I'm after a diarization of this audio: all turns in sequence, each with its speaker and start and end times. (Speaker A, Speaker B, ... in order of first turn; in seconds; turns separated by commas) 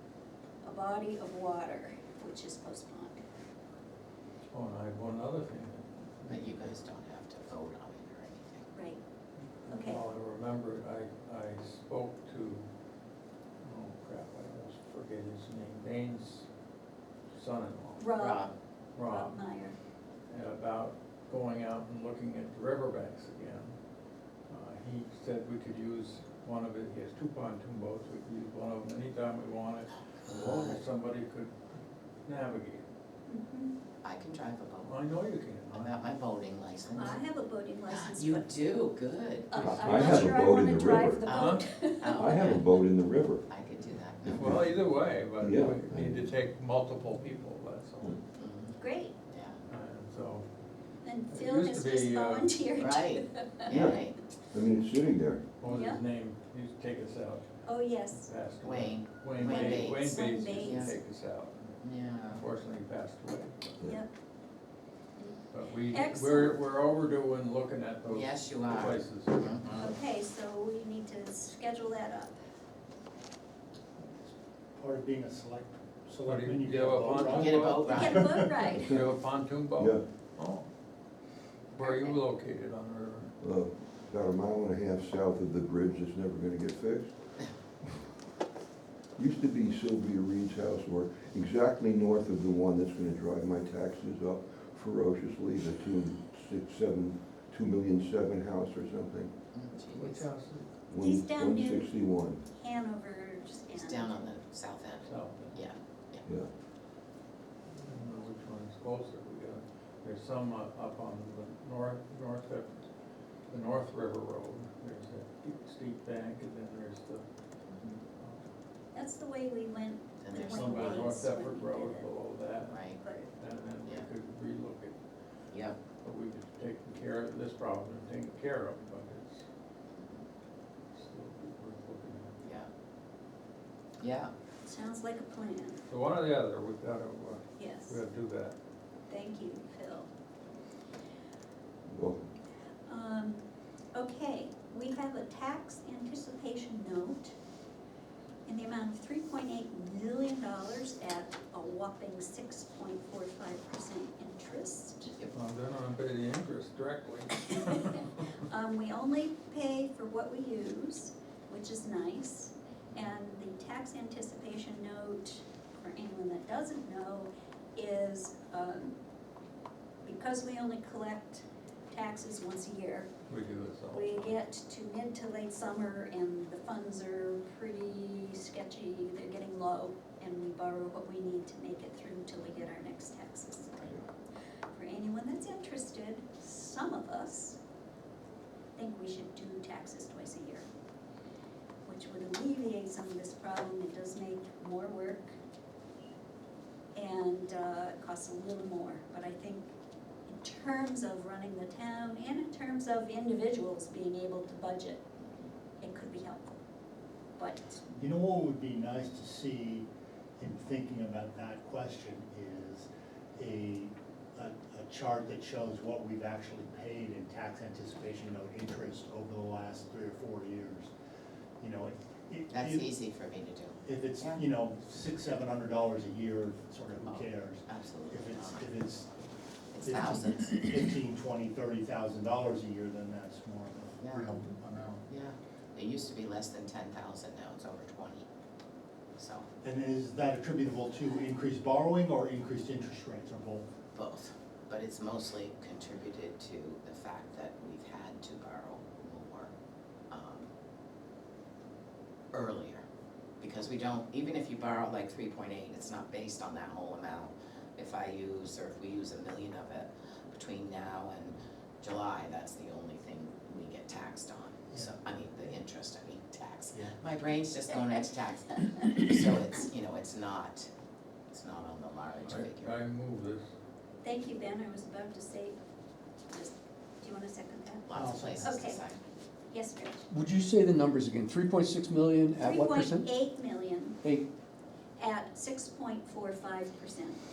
Speaker A: 0.6-3.2, Speaker B: 4.5-6.7, Speaker C: 6.3-8.7, Speaker A: 8.7-9.0, Speaker B: 9.6-12.7, Speaker A: 9.7-10.0, Speaker B: 13.6-16.5, Speaker B: 17.3-18.1, Speaker A: 18.0-18.5, Speaker C: 18.2-18.5, Speaker B: 19.0-19.4, Speaker A: 19.0-19.8, Speaker B: 20.3-23.7, Speaker B: 24.5-31.5, Speaker C: 30.2-30.8, Speaker B: 32.2-32.9, Speaker A: 33.3-33.7, Speaker C: 34.0-35.0, Speaker B: 34.8-35.9, Speaker C: 35.7-37.2, Speaker A: 37.0-38.5, Speaker C: 37.9-40.2, Speaker A: 39.5-42.5, Speaker D: 39.6-41.2, Speaker B: 39.6-40.2, Speaker C: 41.2-42.8, Speaker B: 41.3-41.6, Speaker D: 42.2-43.4, Speaker C: 43.5-44.6, Speaker B: 44.3-48.2, Speaker D: 44.3-44.6, Speaker D: 45.4-46.3, Speaker C: 48.4-49.6, Speaker A: 48.8-49.1, Speaker B: 49.7-50.5, Speaker A: 51.0-53.7, Speaker B: 51.3-52.7, Speaker C: 52.8-54.2, Speaker D: 53.7-55.4, Speaker B: 55.6-63.8, Speaker A: 55.6-56.0, Speaker A: 57.6-58.3, Speaker C: 58.6-61.0, Speaker A: 59.4-61.0, Speaker C: 61.8-62.5, Speaker A: 63.8-64.1, Speaker B: 65.5-70.0, Speaker A: 65.9-66.6, Speaker C: 68.1-69.7, Speaker A: 69.8-72.4, Speaker E: 74.0-78.7, Speaker B: 76.2-78.2, Speaker C: 77.3-78.3, Speaker A: 77.9-78.9, Speaker B: 78.7-80.7, Speaker D: 78.8-79.1, Speaker D: 79.8-80.0, Speaker B: 81.7-83.3, Speaker C: 81.8-82.2, Speaker D: 83.4-87.1, Speaker D: 89.2-99.3, Speaker C: 99.5-100.3, Speaker B: 99.9-100.7, Speaker D: 100.9-102.4, Speaker A: 101.0-104.3, Speaker C: 103.7-106.3, Speaker B: 105.0-105.6, Speaker B: 107.8-112.8, Speaker B: 113.5-117.2, Speaker C: 117.7-118.0, Speaker B: 118.2-118.5, Speaker A: 118.9-122.1, Speaker C: 120.2-121.3, Speaker B: 120.4-122.8, Speaker C: 122.7-123.0, Speaker A: 123.0-123.3, Speaker B: 123.3-125.0, Speaker C: 125.5-125.8, Speaker B: 126.0-129.4, Speaker C: 129.9-130.3, Speaker B: 130.9-132.4, Speaker C: 132.4-132.7, Speaker C: 134.0-134.3, Speaker A: 134.7-135.8, Speaker B: 135.9-138.6, Speaker A: 137.6-138.0, Speaker A: 139.1-140.1, Speaker D: 141.9-142.3, Speaker A: 142.9-143.4, Speaker A: 143.9-147.3, Speaker A: 148.5-155.2, Speaker B: 155.3-158.1, Speaker A: 157.5-169.0, Speaker A: 170.0-173.1, Speaker B: 173.3-174.3, Speaker A: 173.9-184.0, Speaker A: 184.7-187.6, Speaker A: 188.8-190.7, Speaker A: 191.8-195.4, Speaker A: 196.9-199.7, Speaker A: 200.3-205.0, Speaker A: 205.8-206.6, Speaker A: 207.4-207.8, Speaker E: 208.0-209.9, Speaker E: 210.4-220.9, Speaker E: 221.6-223.0, Speaker C: 222.5-224.4, Speaker E: 223.8-229.2, Speaker C: 227.0-228.7, Speaker C: 229.7-230.7, Speaker E: 229.8-235.1, Speaker C: 234.0-234.5, Speaker C: 235.1-238.3, Speaker C: 239.2-239.5, Speaker E: 239.6-243.7, Speaker C: 243.9-249.5, Speaker C: 250.1-250.5, Speaker C: 252.3-252.8, Speaker C: 253.4-270.7, Speaker E: 264.7-265.6, Speaker C: 271.3-272.8, Speaker B: 272.3-273.5, Speaker A: 274.0-275.6, Speaker A: 276.3-278.8, Speaker C: 277.9-279.0, Speaker E: 277.9-278.7, Speaker A: 279.5-280.1, Speaker F: 280.1-283.1, Speaker A: 282.4-284.0, Speaker A: 285.0-287.2